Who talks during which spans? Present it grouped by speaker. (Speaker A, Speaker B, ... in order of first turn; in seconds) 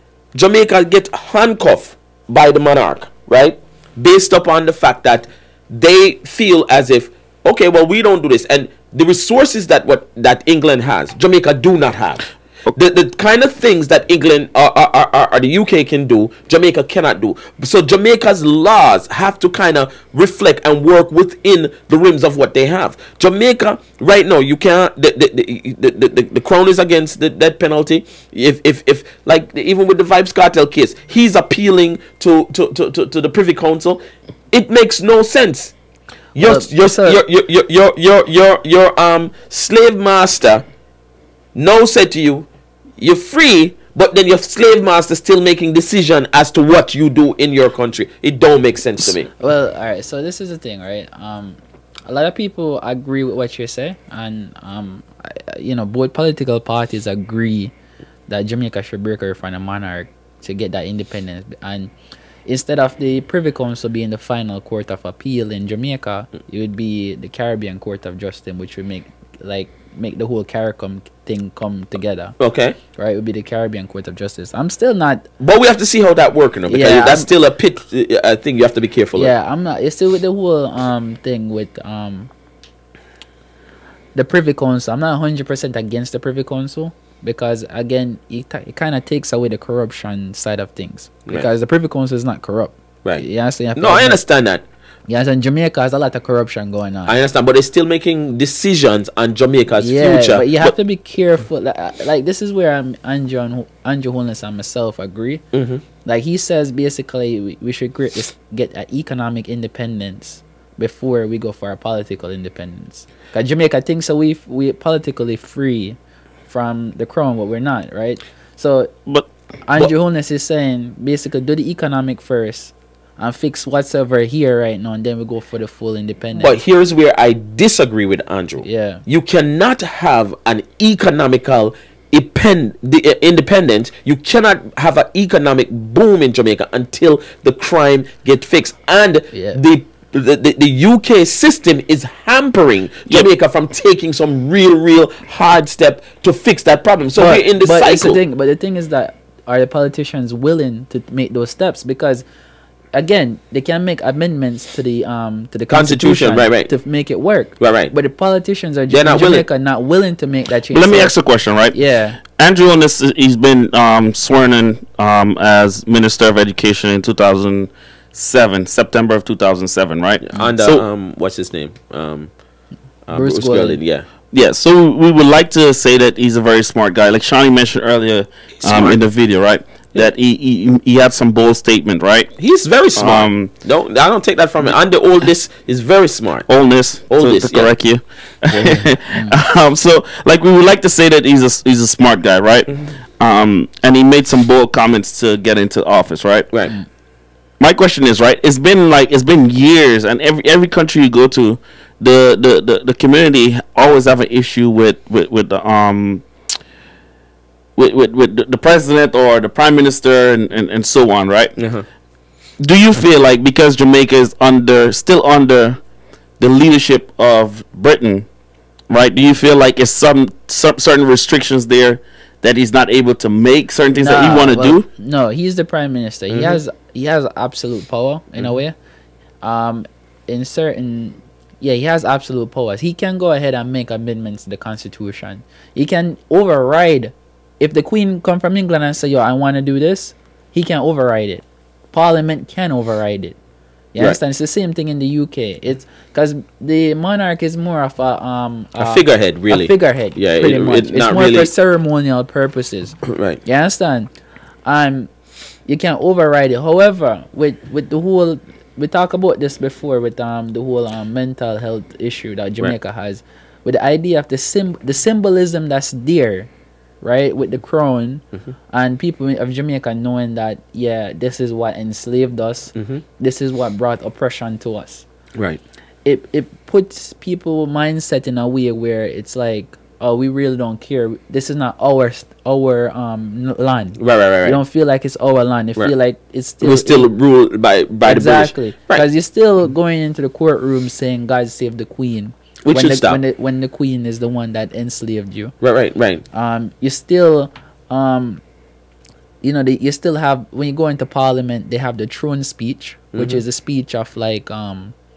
Speaker A: 0.3-34.0, 34.5-35.7, 36.3-40.6, 41.5-42.5, 43.0-49.3, 72.4-72.8, 75.4-79.3, 93.0-94.6, 97.1-100.7, 105.5-105.8, 126.3-148.2, 155.7-156.7, 157.6-157.9, 158.9-159.4, 170.2-172.3, 173.1-174.1, 178.6-179.0, 182.4-186.5, 187.1-187.8, 188.5-188.8, 211.6-211.8, 226.3-226.6, 248.8-251.5, 253.1-253.4, 272.8-273.0, 275.3-275.6, 284.0-284.6, 286.6-289.0, 292.6-293.2, 295.6-296.2, 303.1-303.4
Speaker B: 36.4-37.2, 49.1-57.7, 58.3-61.9, 62.4-72.3, 73.0-75.3, 76.7-77.3, 79.2-82.3, 84.1-94.2, 95.1-97.2, 99.8-105.4, 106.0-118.9, 119.7-126.6, 128.6-129.0, 139.3-139.6, 147.2-152.2, 152.9-161.2, 161.7-162.2, 173.1-173.8, 189.1-189.4, 223.9-228.8, 229.4-243.4, 243.9-254.1, 254.6-255.1, 255.7-266.5, 267.0-275.1, 276.0-287.1, 288.0-295.5, 296.3-298.4, 299.4-304.9
Speaker C: 160.7-161.8, 162.3-170.8, 174.3-182.3, 182.9-183.5, 186.5-196.5, 197.6-206.2, 207.8-211.6, 212.6-215.8, 216.4-218.3, 218.9-224.9